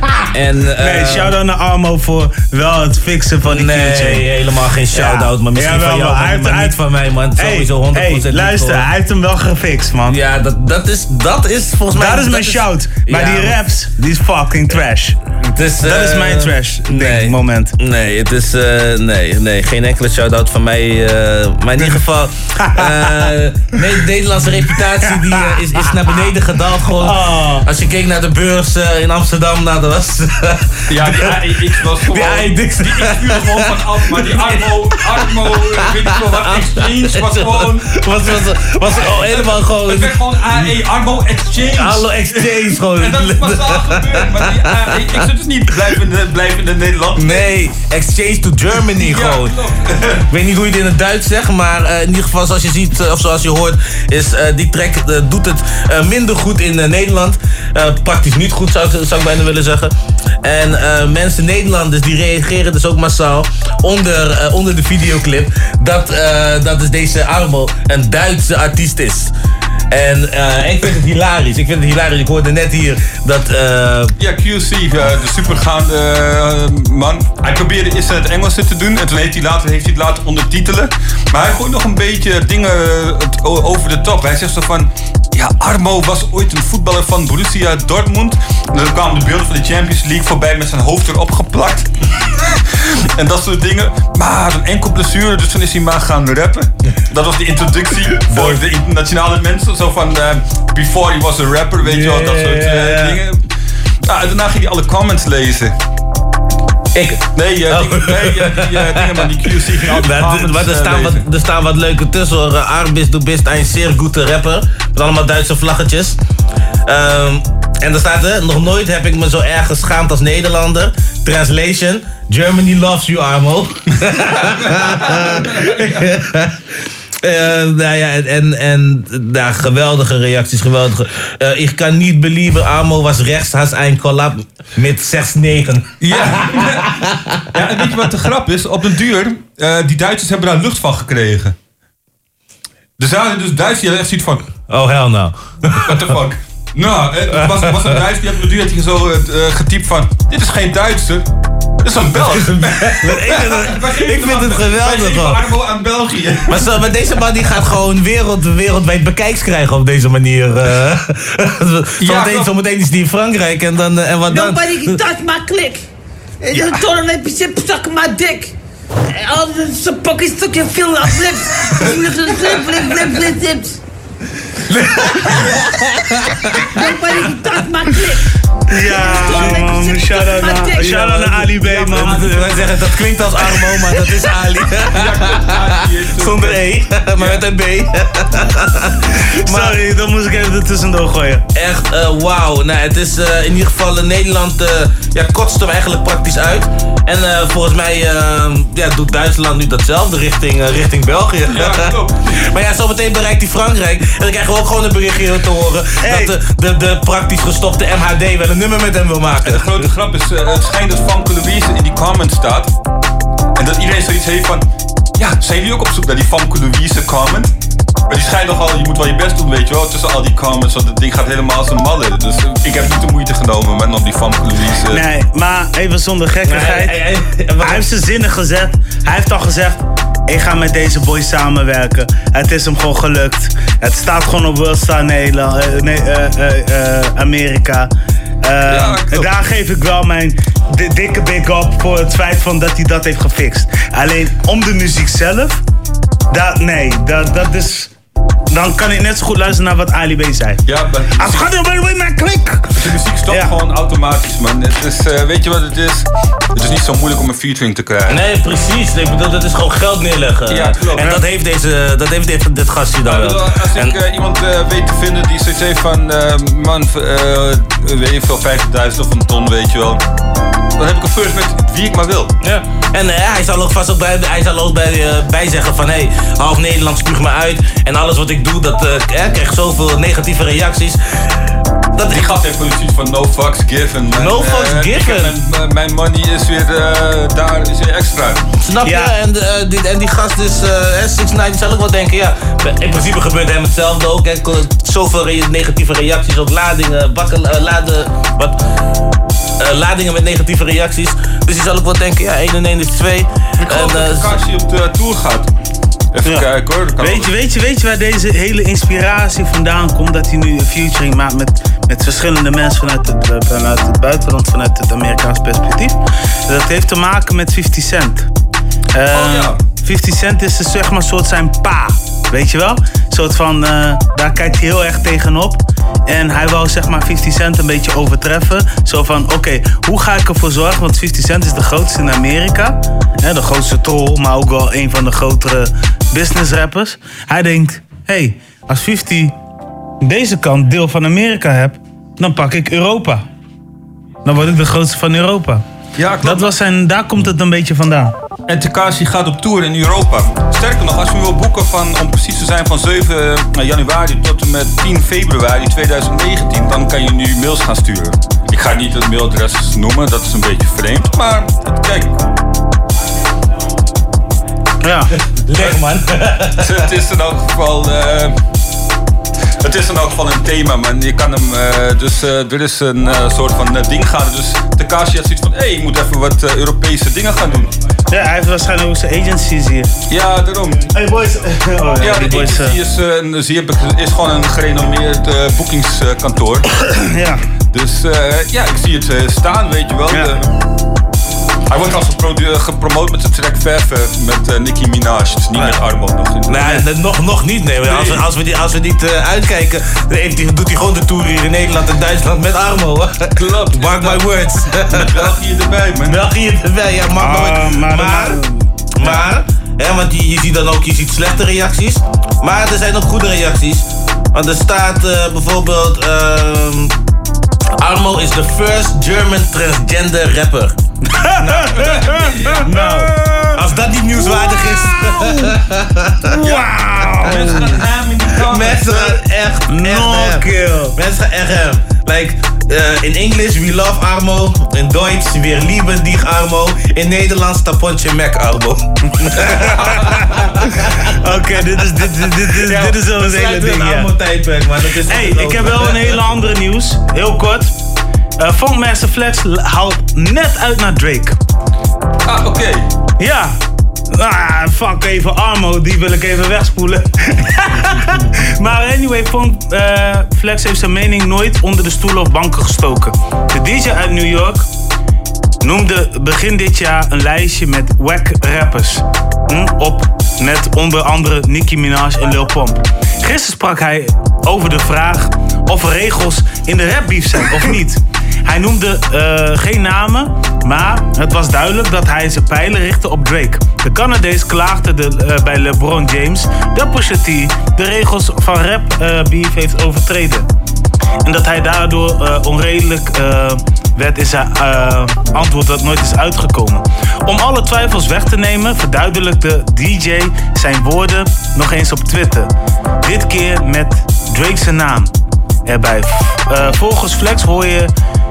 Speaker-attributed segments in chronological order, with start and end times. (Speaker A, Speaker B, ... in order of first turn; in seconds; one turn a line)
Speaker A: 0.3-1.3
Speaker B: 0.8-4.3
Speaker A: 3.5-8.9
Speaker B: 4.9-6.8
Speaker B: 7.4-10.2
Speaker A: 10.1-13.6
Speaker B: 11.9-15.2
Speaker A: 15.4-40.1
Speaker B: 15.8-17.7
Speaker B: 22.6-23.3
Speaker B: 25.1-25.9
Speaker B: 27.0-27.7
Speaker C: 30.9-47.6
Speaker A: 41.8-45.0
Speaker A: 47.2-49.5
Speaker C: 49.0-50.2
Speaker A: 50.3-69.3
Speaker A: 69.9-74.1
Speaker C: 74.2-91.9
Speaker C: 92.8-103.5
Speaker A: 98.3-98.6
Speaker A: 101.8-103.2
Speaker C: 104.1-105.7
Speaker A: 107.0-109.3
Speaker C: 107.3-111.2
Speaker A: 109.9-116.2
Speaker A: 116.9-126.5
Speaker C: 125.2-126.1
Speaker A: 127.2-137.4
Speaker C: 136.0-136.9
Speaker C: 137.5-141.6
Speaker C: 143.0-144.5
Speaker A: 144.7-146.1
Speaker C: 145.9-151.3
Speaker A: 147.3-148.0
Speaker C: 151.8-156.7
Speaker A: 152.1-155.4
Speaker A: 156.5-165.0
Speaker C: 162.0-162.5
Speaker D: 164.3-165.8
Speaker D: 166.4-168.5
Speaker D: 169.2-173.8
Speaker A: 174.7-175.5
Speaker D: 176.8-178.2
Speaker B: 178.7-182.6
Speaker D: 179.0-181.0
Speaker A: 180.9-189.8
Speaker C: 181.7-182.4
Speaker C: 184.9-186.7
Speaker C: 187.2-187.4
Speaker B: 189.5-191.4
Speaker A: 191.6-209.8
Speaker C: 201.5-202.2
Speaker B: 206.0-206.3
Speaker C: 209.4-212.7
Speaker C: 213.6-214.6
Speaker C: 215.2-217.5
Speaker C: 218.1-225.0
Speaker B: 224.9-227.0
Speaker A: 226.4-227.9
Speaker B: 227.6-237.9
Speaker B: 238.4-245.6
Speaker C: 238.7-239.3
Speaker B: 246.3-247.9
Speaker B: 248.5-250.6
Speaker C: 250.7-251.5
Speaker B: 251.2-252.8
Speaker C: 252.8-258.2
Speaker A: 258.1-263.9
Speaker C: 260.5-261.2
Speaker C: 263.0-270.0
Speaker C: 270.8-272.3
Speaker A: 272.4-281.0
Speaker A: 282.0-282.3
Speaker C: 282.1-288.4
Speaker A: 284.1-285.3
Speaker A: 288.6-298.6
Speaker B: 288.8-289.1
Speaker A: 299.6-304.3
Speaker C: 303.6-305.5
Speaker C: 306.1-307.3
Speaker B: 307.0-318.3
Speaker B: 318.9-339.4
Speaker C: 319.1-319.6
Speaker B: 340.0-343.2
Speaker B: 344.2-345.6
Speaker C: 346.0-346.5
Speaker B: 346.2-348.1
Speaker C: 348.5-362.2
Speaker B: 364.8-365.1
Speaker A: 365.4-366.7
Speaker C: 366.6-368.4
Speaker C: 369.6-377.7
Speaker B: 378.1-379.9
Speaker C: 380.1-380.9
Speaker B: 380.9-382.8
Speaker C: 382.0-386.7
Speaker B: 387.0-387.4
Speaker C: 387.7-390.5
Speaker C: 391.7-396.8
Speaker A: 396.5-405.1
Speaker C: 403.4-406.2
Speaker A: 406.1-408.4
Speaker B: 407.2-409.2
Speaker A: 409.0-416.9
Speaker A: 417.8-420.8
Speaker B: 421.1-423.1
Speaker C: 421.4-423.1
Speaker A: 422.7-423.0
Speaker A: 423.6-426.1
Speaker B: 424.2-425.6
Speaker B: 426.3-427.8
Speaker C: 426.4-429.2
Speaker A: 428.4-440.0
Speaker B: 429.7-431.0
Speaker B: 439.6-440.2
Speaker B: 441.2-444.1
Speaker A: 442.6-446.1
Speaker B: 445.1-447.7
Speaker B: 448.4-451.4
Speaker C: 452.2-452.9
Speaker B: 453.2-453.6
Speaker B: 454.1-464.7
Speaker B: 465.6-490.5
Speaker B: 491.2-502.5
Speaker B: 503.0-505.1
Speaker B: 505.7-507.9